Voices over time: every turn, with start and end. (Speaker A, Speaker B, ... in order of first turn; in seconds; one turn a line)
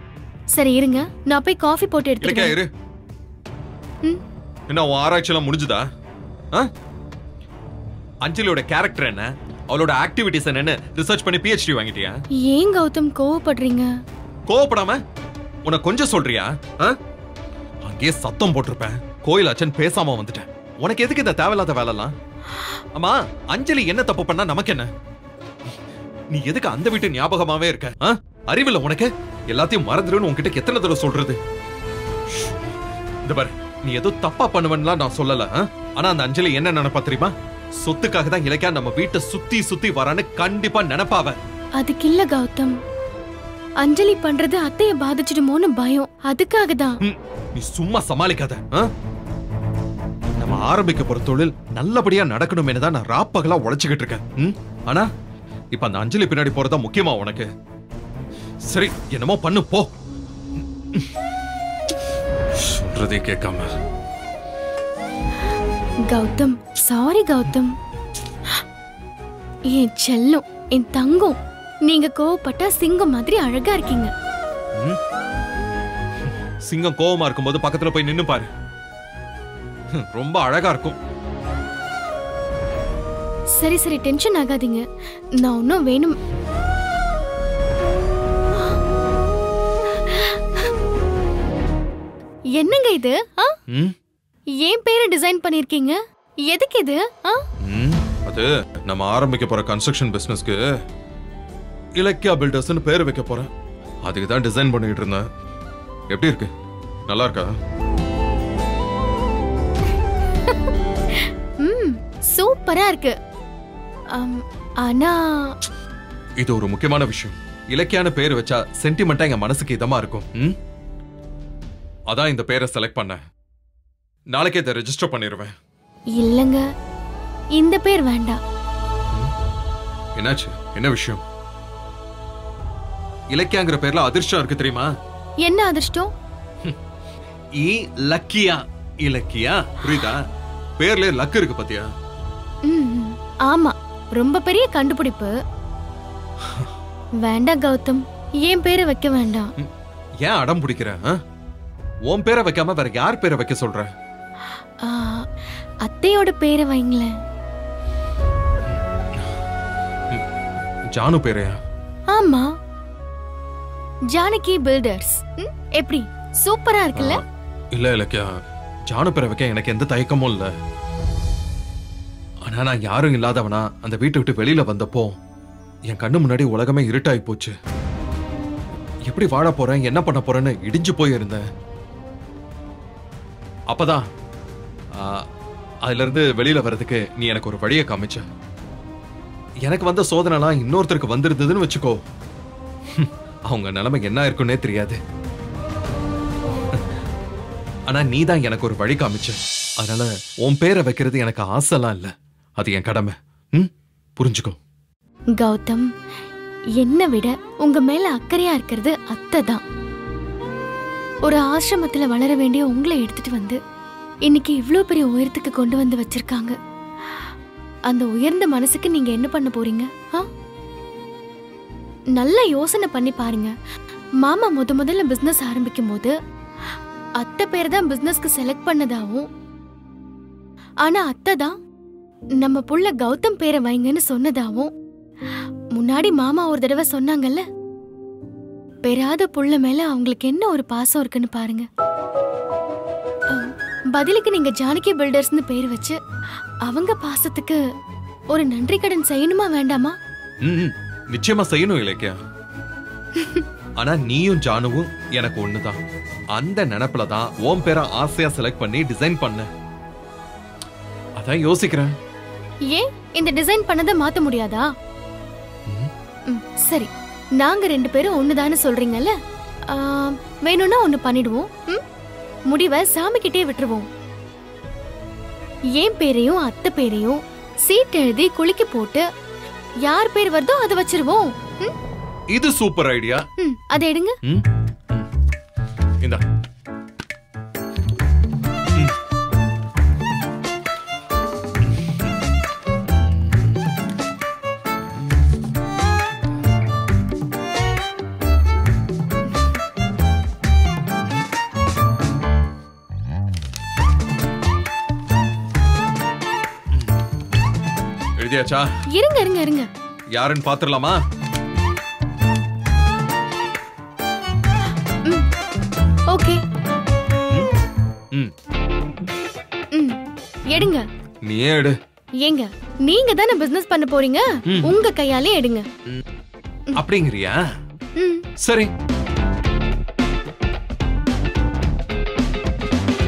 Speaker A: 0.5-2.5
Speaker B: 2.2-2.7
Speaker B: 4.7-5.8
Speaker B: 8.2-12.2
Speaker A: 12.4-13.9
Speaker B: 14.5-15.0
Speaker B: 15.7-17.0
Speaker B: 17.9-22.1
Speaker B: 22.9-24.9
Speaker B: 26.3-31.4
Speaker B: 33.3-41.4
Speaker A: 41.8-42.8
Speaker A: 43.8-47.0
Speaker B: 47.0-48.9
Speaker B: 50.4-55.1
Speaker B: 55.7-57.5
Speaker B: 58.7-59.9
Speaker B: 62.6-63.7
Speaker A: 66.1-67.7
Speaker A: 69.7-74.1
Speaker B: 76.7-78.5
Speaker B: 80.1-81.0
Speaker A: 83.6-84.8
Speaker A: 85.4-86.2
Speaker A: 90.0-90.7
Speaker A: 92.6-93.6
Speaker A: 94.6-97.4
Speaker B: 97.6-100.6
Speaker B: 102.0-103.5
Speaker B: 104.0-105.2
Speaker B: 106.1-106.5
Speaker B: 107.1-107.5
Speaker A: 110.5-113.1
Speaker A: 114.2-115.5
Speaker B: 116.4-120.5
Speaker B: 122.1-123.2
Speaker B: 124.3-125.5
Speaker A: 126.2-126.6
Speaker A: 127.5-128.4
Speaker B: 130.2-131.2
Speaker B: 133.3-134.9
Speaker A: 135.4-136.1
Speaker B: 137.6-140.2
Speaker B: 140.8-141.9
Speaker A: 142.7-145.3
Speaker B: 146.4-146.7
Speaker A: 147.2-149.5
Speaker B: 150.2-151.1
Speaker B: 152.1-153.9
Speaker A: 154.8-155.2
Speaker A: 155.8-157.1
Speaker B: 160.9-161.6
Speaker A: 162.1-162.4
Speaker A: 164.1-167.2
Speaker B: 166.9-167.2
Speaker B: 167.7-168.3
Speaker B: 168.9-170.5
Speaker B: 172.4-175.2
Speaker B: 175.9-177.5
Speaker B: 179.1-181.4
Speaker B: 183.7-184.0
Speaker B: 184.9-185.2
Speaker B: 185.8-188.2
Speaker B: 189.6-192.0
Speaker B: 192.9-195.0
Speaker B: 197.9-204.6
Speaker A: 205.4-205.9
Speaker A: 206.8-209.6
Speaker A: 211.2-213.6
Speaker A: 214.3-216.5
Speaker A: 217.9-220.3
Speaker A: 222.2-223.5
Speaker A: 224.2-226.1
Speaker A: 227.2-229.3
Speaker A: 230.8-231.5
Speaker A: 232.4-234.7
Speaker A: 235.8-237.4
Speaker A: 238.8-241.7
Speaker A: 243.3-246.0
Speaker A: 246.7-247.6
Speaker A: 248.3-249.9
Speaker B: 250.4-252.2
Speaker A: 253.2-253.4
Speaker B: 253.8-255.8
Speaker B: 256.4-259.5
Speaker B: 261.2-261.9
Speaker A: 262.7-264.7
Speaker A: 266.3-269.1
Speaker A: 269.7-271.8
Speaker A: 272.5-273.9
Speaker A: 275.8-279.0
Speaker A: 279.9-281.7
Speaker B: 282.3-283.2
Speaker A: 283.4-284.2
Speaker B: 284.2-285.1
Speaker B: 308.2-308.7
Speaker A: 308.9-309.7
Speaker B: 310.1-311.0
Speaker A: 316.1-316.4
Speaker A: 320.5-320.8
Speaker B: 321.2-321.8
Speaker A: 322.2-325.6
Speaker B: 324.5-324.7
Speaker B: 326.8-327.4
Speaker A: 328.0-328.2
Speaker B: 328.4-328.7